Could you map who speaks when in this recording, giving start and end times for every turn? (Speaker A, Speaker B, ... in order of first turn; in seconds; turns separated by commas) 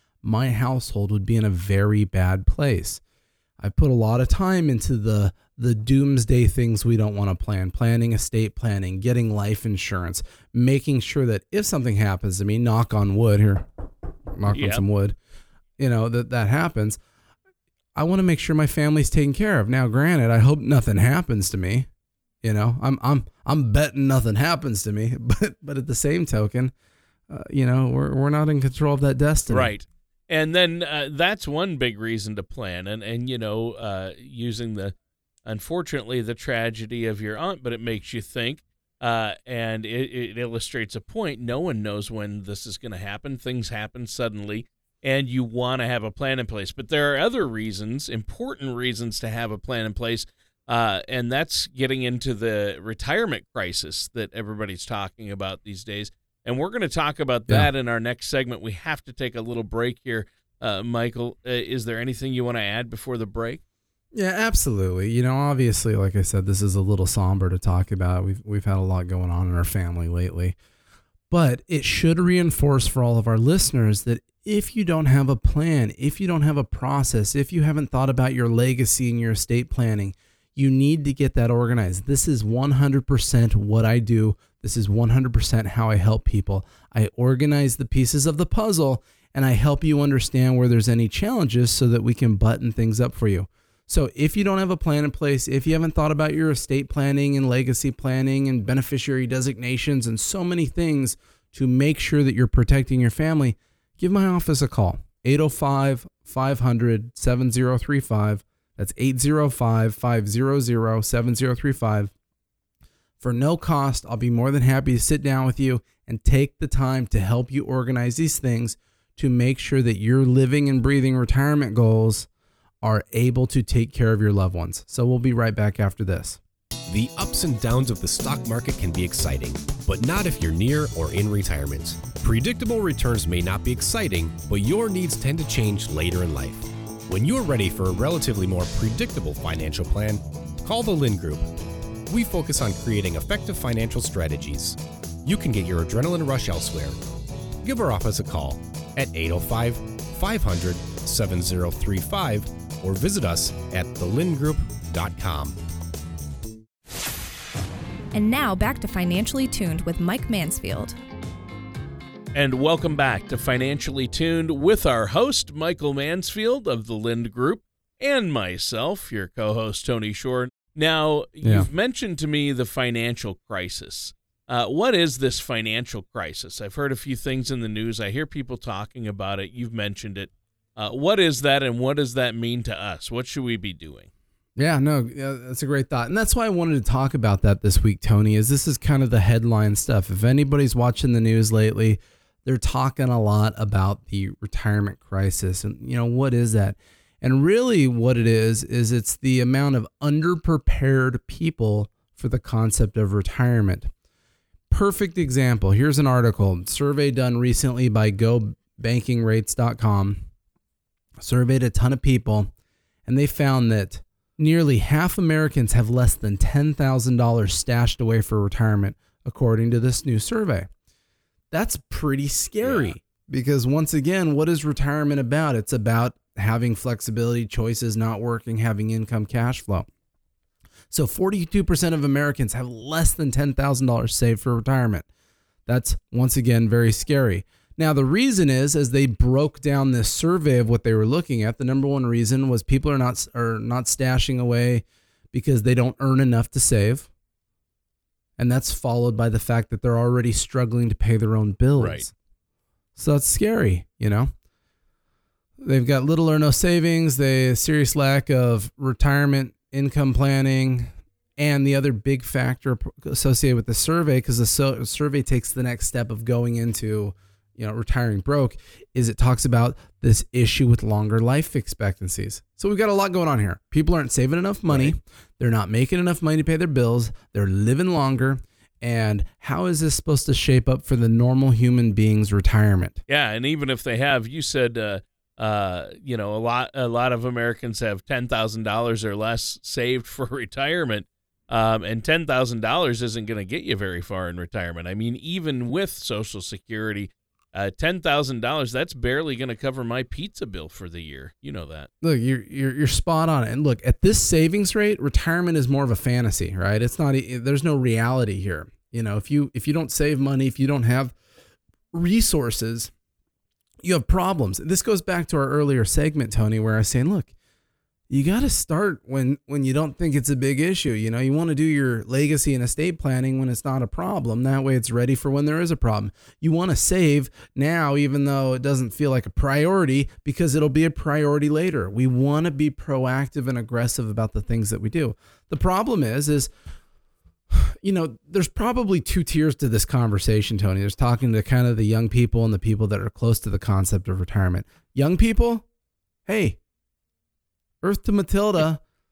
Speaker A: 0.2-3.0, Speaker A: 3.6-13.7, Speaker A: 14.4-15.2, Speaker B: 14.5-14.8, Speaker A: 15.8-17.0, Speaker A: 17.9-21.9, Speaker A: 22.4-26.7, Speaker A: 27.3-29.7, Speaker B: 29.5-34.9, Speaker B: 35.5-63.6, Speaker A: 64.1-70.6, Speaker A: 71.3-112.1, Speaker A: 113.2-122.3, Speaker A: 122.8-126.4, Speaker C: 126.9-141.5, Speaker C: 142.1-147.0, Speaker C: 147.6-155.6, Speaker D: 158.1-161.0, Speaker B: 162.3-184.1, Speaker A: 171.4-171.7, Speaker A: 184.6-203.9, Speaker A: 204.7-210.2, Speaker A: 211.2-212.5, Speaker A: 213.1-220.7, Speaker A: 221.5-229.9, Speaker B: 222.6-222.9, Speaker A: 230.9-235.1, Speaker A: 235.7-247.1, Speaker A: 248.4-252.1, Speaker B: 251.8-252.0, Speaker A: 253.0-254.3, Speaker A: 255.6-283.0, Speaker B: 274.7-274.9, Speaker B: 283.1-301.9, Speaker A: 302.0-311.1, Speaker A: 311.9-312.9, Speaker A: 313.8-317.3, Speaker A: 318.1-336.5, Speaker A: 337.5-345.7, Speaker A: 346.3-346.6, Speaker A: 347.8-348.8